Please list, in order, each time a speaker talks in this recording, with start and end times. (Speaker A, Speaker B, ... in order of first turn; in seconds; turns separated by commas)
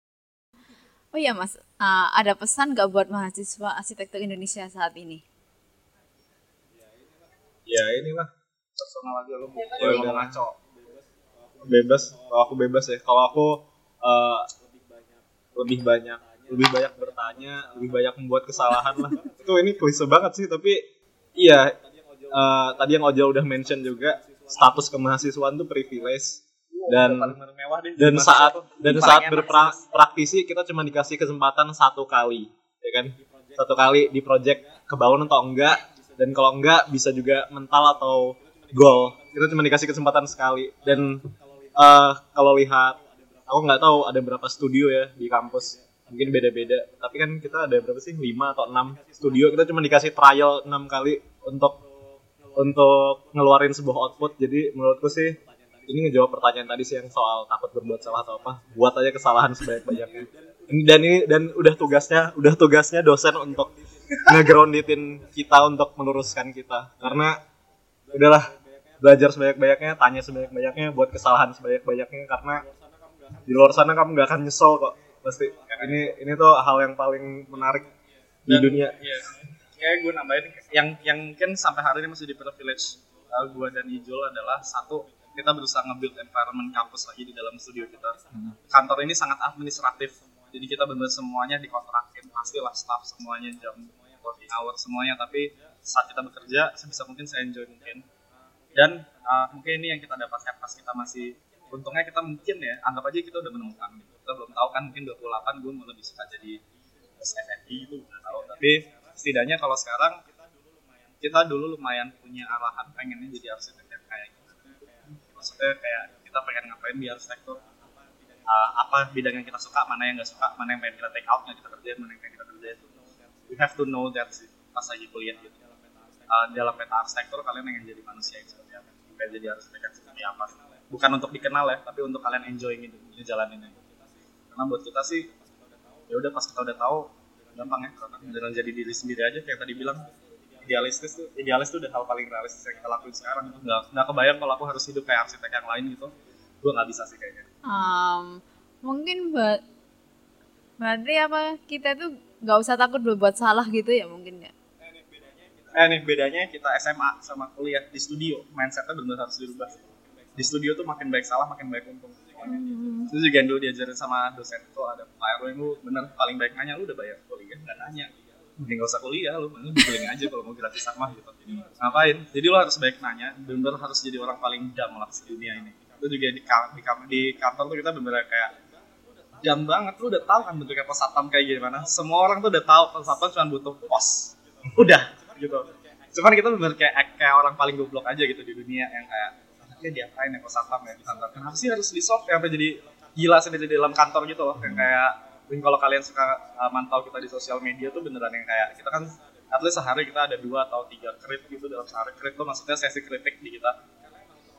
Speaker A: 1.1-5.2, Speaker B: 7.7-8.3, Speaker C: 8.8-10.6, Speaker B: 9.8-10.4, Speaker B: 11.6-14.5, Speaker B: 15.5-20.8, Speaker B: 21.4-21.7, Speaker B: 22.3-27.4, Speaker C: 26.7-29.8, Speaker B: 28.0-51.8, Speaker B: 52.5-63.7, Speaker B: 64.3-67.4, Speaker B: 68.1-68.4, Speaker B: 69.0-72.6, Speaker B: 73.5-77.9, Speaker C: 75.7-76.0, Speaker B: 78.5-79.0, Speaker C: 78.5-98.0, Speaker C: 98.7-106.6, Speaker C: 107.2-110.2, Speaker C: 111.2-117.6, Speaker C: 118.5-122.8, Speaker C: 123.5-125.6, Speaker C: 126.3-133.8, Speaker C: 134.5-135.3, Speaker C: 136.1-140.1, Speaker C: 140.6-146.1, Speaker C: 146.6-147.5, Speaker A: 147.7-149.6, Speaker A: 150.8-154.5, Speaker C: 155.7-159.8, Speaker C: 160.3-178.5, Speaker A: 162.4-163.1, Speaker C: 179.4-203.8